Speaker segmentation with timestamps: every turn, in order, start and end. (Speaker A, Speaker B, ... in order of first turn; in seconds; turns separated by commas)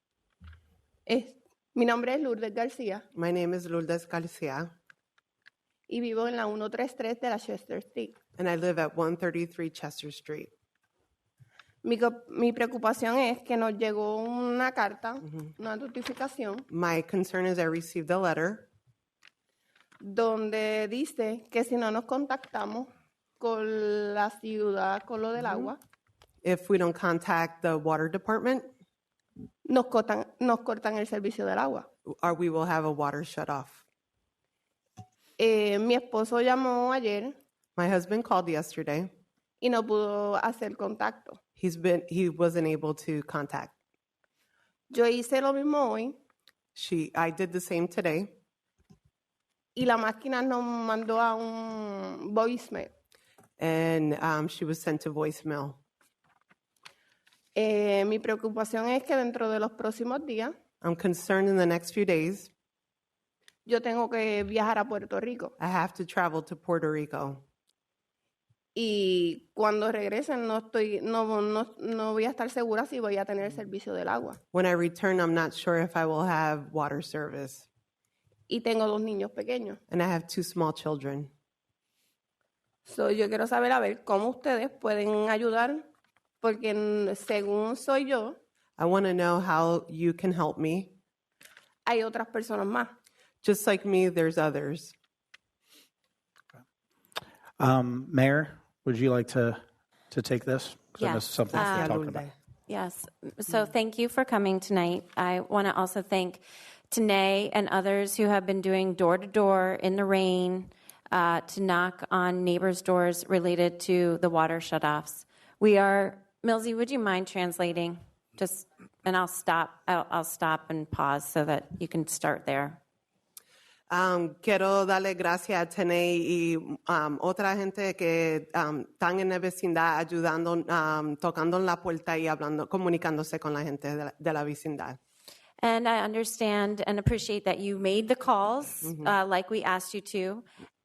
Speaker A: 1.1-3.0, Speaker B: 3.1-4.7, Speaker A: 5.9-8.2, Speaker B: 8.4-10.5, Speaker A: 11.8-16.6, Speaker B: 16.7-18.7, Speaker A: 20.0-22.9, Speaker A: 23.4-25.8, Speaker B: 26.4-28.7, Speaker A: 29.6-31.9, Speaker B: 32.2-33.8, Speaker A: 35.4-37.3, Speaker B: 37.8-39.1, Speaker A: 39.6-41.4, Speaker B: 41.5-43.7, Speaker A: 44.9-46.2, Speaker B: 46.7-48.4, Speaker A: 49.7-52.9, Speaker B: 53.6-55.8, Speaker A: 57.5-60.5, Speaker B: 60.8-62.5, Speaker A: 63.6-65.5, Speaker B: 65.6-67.4, Speaker A: 68.7-74.4, Speaker B: 74.5-77.7, Speaker A: 78.5-79.8, Speaker B: 79.9-81.3, Speaker A: 82.8-85.8, Speaker A: 86.4-88.4, Speaker B: 88.8-91.0, Speaker A: 91.8-92.9, Speaker B: 93.4-94.9, Speaker C: 97.6-102.2, Speaker D: 101.0-102.0, Speaker B: 101.5-102.3, Speaker D: 102.7-122.8, Speaker B: 123.9-135.0, Speaker D: 135.6-140.4, Speaker B: 138.8-139.1